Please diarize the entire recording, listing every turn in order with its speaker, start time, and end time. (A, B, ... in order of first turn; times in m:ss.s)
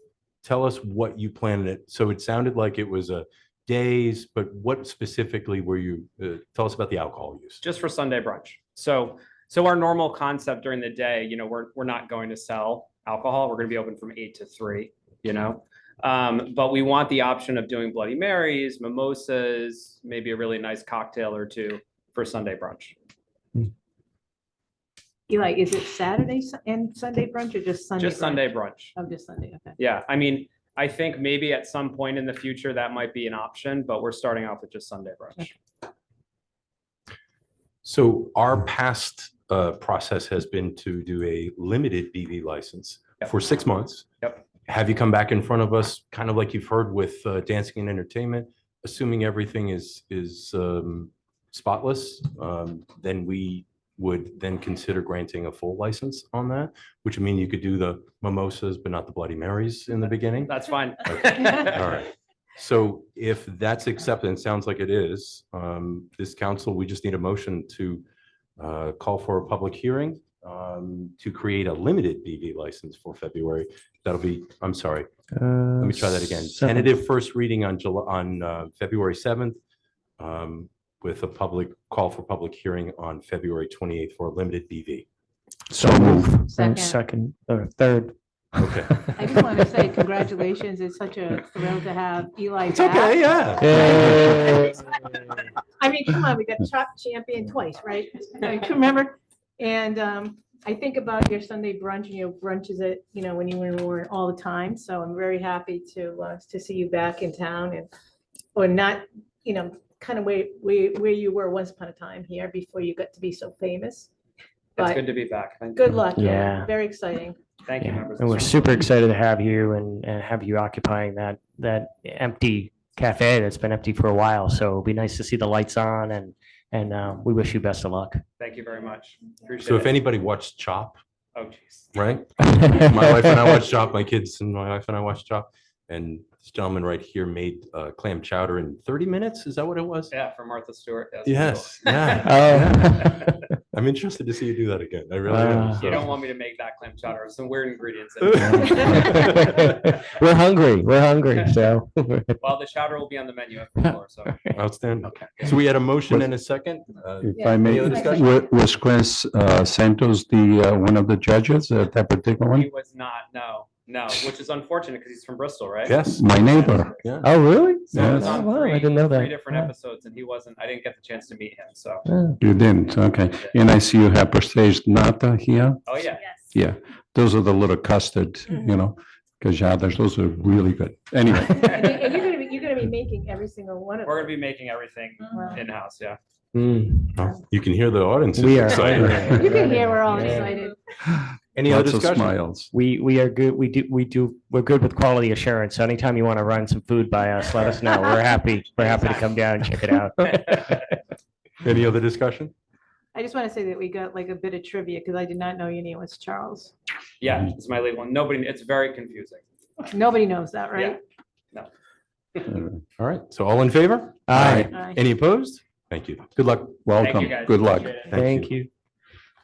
0:00.4-0:07.6 A
0:07.6-0:23.0 B
0:25.3-0:29.8 C
0:28.0-0:29.0 B
0:29.8-0:35.5 B
0:37.8-0:44.1 A
0:44.7-1:00.5 A
1:00.4-1:01.9 B
1:01.1-1:08.0 A
1:08.6-1:15.1 A
1:15.3-1:16.9 D
1:15.8-1:19.6 A
1:20.2-1:25.0 A
1:25.7-1:29.2 D
1:25.9-1:26.3 E
1:26.5-1:27.0 C
1:28.6-1:29.1 A
1:29.2-1:33.8 C
1:32.7-1:33.9 A
1:33.6-1:34.7 D
1:35.8-1:47.9 C
1:48.6-1:54.1 C
1:54.8-1:55.9 B
1:54.8-1:55.0 C
1:55.8-1:57.4 C
1:56.1-1:56.7 D
1:57.6-1:58.9 B
1:57.8-2:08.2 D
2:08.4-2:10.0 B
2:09.6-2:11.0 A
2:11.3-2:11.9 B
2:11.9-2:20.1 A
2:20.1-2:22.5 B
2:21.2-2:23.1 A
2:22.2-2:23.4 D
2:23.7-2:26.1 A
2:25.3-2:26.0 D
2:25.7-2:29.5 B
2:28.3-2:32.4 D
2:32.4-2:34.4 B
2:34.4-2:35.2 D
2:34.6-2:38.2 A
2:37.2-2:42.7 E
2:37.4-2:38.4 C
2:42.5-2:47.1 B
2:45.8-2:46.2 A
2:46.1-2:46.9 E
2:47.0-2:47.3 A
2:47.2-2:49.7 D
2:47.9-2:52.0 B
2:48.0-2:48.4 E
2:52.1-2:52.4 D
2:52.4-2:55.8 E
2:55.8-2:56.3 B
2:56.5-3:01.8 E
3:01.5-3:01.9 B
3:01.5-3:04.4 C
3:04.0-3:06.2 B
3:05.3-3:05.6 C
3:06.5-3:07.2 D
3:07.1-3:09.4 A
3:08.3-3:10.5 D
3:09.4-3:10.8 C
3:11.6-3:12.4 A
3:11.6-3:12.7 E
3:12.7-3:20.8 D
3:18.8-3:19.3 B
3:20.4-3:20.8 B
3:21.6-3:22.5 A
3:23.1-3:26.7 C
3:27.2-3:29.4 B
3:29.8-3:31.0 C
3:32.5-3:32.8 E
3:33.0-3:36.8 A
3:34.3-3:34.7 D
3:34.4-3:34.7 E
3:34.7-3:35.0 C
3:36.8-3:38.2 E
3:37.0-3:38.2 B
3:38.1-3:38.7 D